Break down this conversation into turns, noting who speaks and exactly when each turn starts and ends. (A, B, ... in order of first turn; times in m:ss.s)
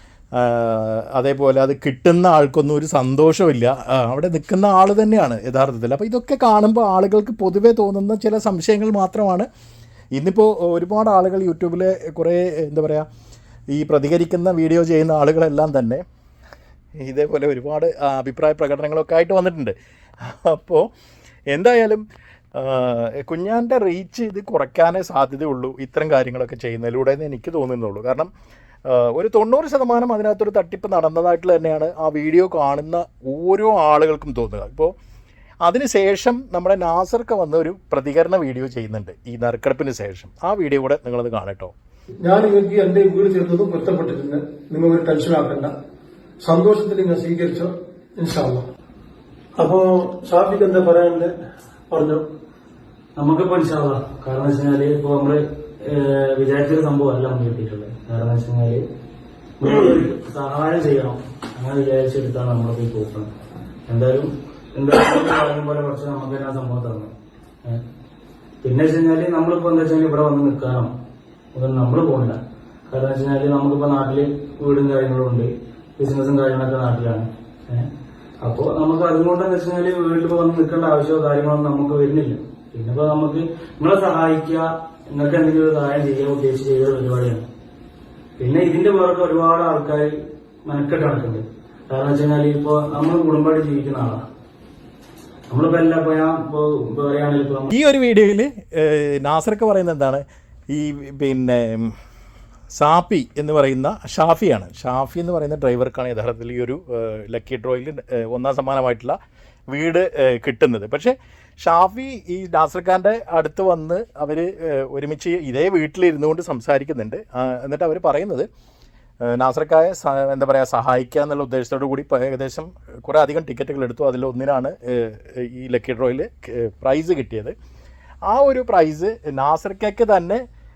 0:00.3-0:09.5 A
0:10.1-0:13.0 A
0:13.7-0:16.0 A
0:17.0-0:20.9 A
0:21.5-0:22.0 A
0:22.5-0:28.3 A
0:28.9-0:34.9 A
0:35.6-0:41.7 A
0:42.2-0:45.7 B
0:46.4-0:48.6 B
0:49.6-0:51.3 B
0:51.9-0:52.2 B
0:53.2-0:58.8 C
0:59.6-1:03.3 C
0:59.6-0:59.9 B
1:03.9-1:07.1 C
1:08.6-1:10.9 C
1:11.5-1:17.9 C
1:18.4-1:27.4 C
1:28.4-1:30.1 C
1:30.6-1:34.2 C
1:35.5-1:37.7 C
1:37.7-1:41.9 A
1:42.7-1:49.2 A
1:49.7-1:58.5 A
1:59.2-2:07.5 A
2:08.3-2:10.4 A